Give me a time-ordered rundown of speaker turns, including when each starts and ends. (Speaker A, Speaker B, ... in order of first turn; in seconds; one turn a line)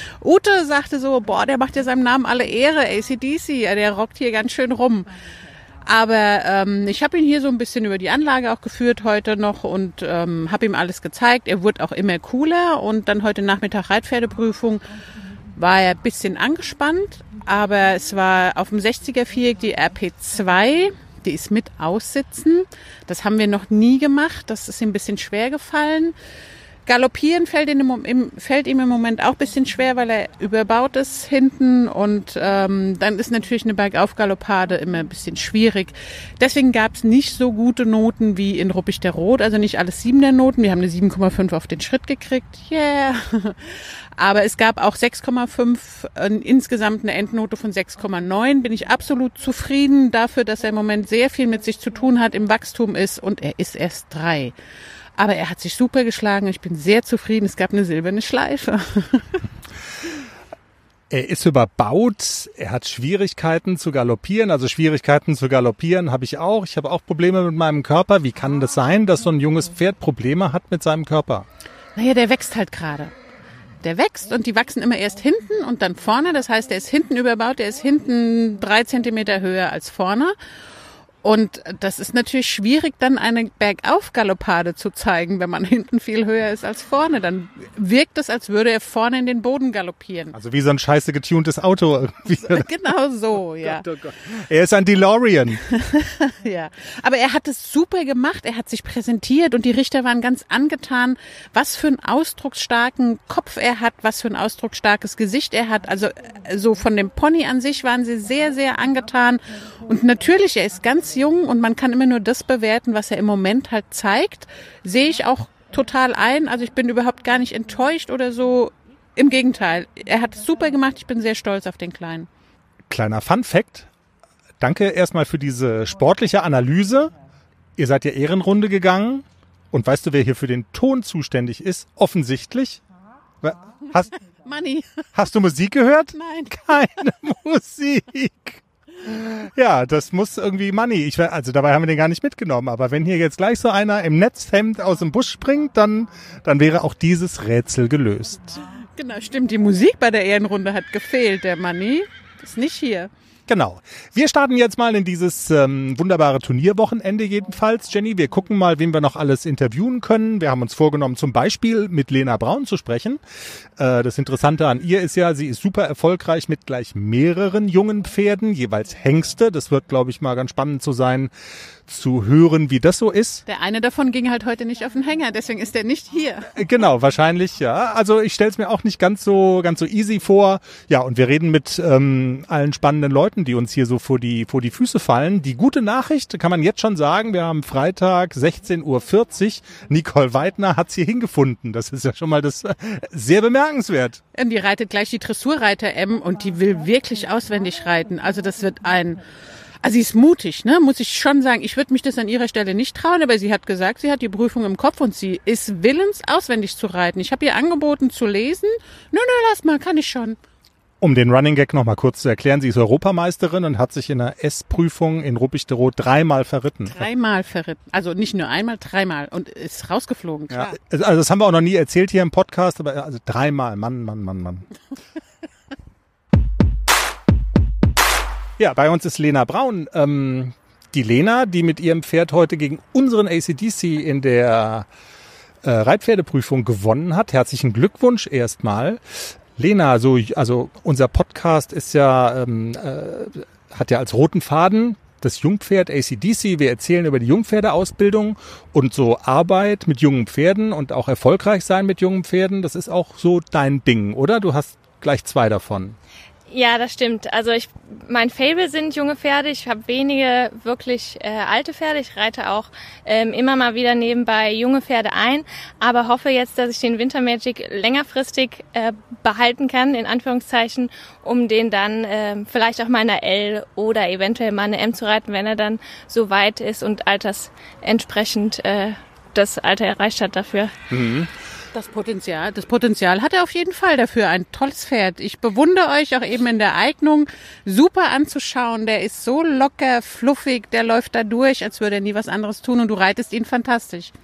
Speaker A: 0.2-5.1
Speaker A: 5.8-14.8
Speaker A: 15.6-26.1
Speaker A: 26.9-54.5
Speaker A: 55.2-59.4
Speaker B: 61.1-71.5
Speaker A: 72.0-73.1
Speaker A: 73.8-80.3
Speaker A: 81.2-90.3
Speaker B: 90.3-92.7
Speaker A: 92.4-93.9
Speaker B: 93.6-95.6
Speaker A: 95.7-122.3
Speaker B: 122.9-123.9
Speaker B: 124.6-127.1
Speaker B: 127.8-132.8
Speaker B: 133.4-134.1
Speaker A: 134.4-135.0
Speaker B: 135.2-148.6
Speaker A: 136.2-136.8
Speaker A: 149.0-153.1
Speaker B: 153.5-163.2
Speaker B: 163.8-171.3
Speaker B: 171.9-173.4
Speaker A: 173.5-176.6
Speaker B: 176.5-194.2
Speaker A: 194.3-199.2
Speaker A: 199.8-210.4
Speaker B: 211.0-217.0
Speaker A: 216.8-220.7
Speaker B: 220.5-224.7
Speaker B: 228.6-234.9
Speaker B: 235.6-256.0
Speaker C: 256.5-280.8
Speaker B: 280.9-281.3
Speaker A: 281.7-294.1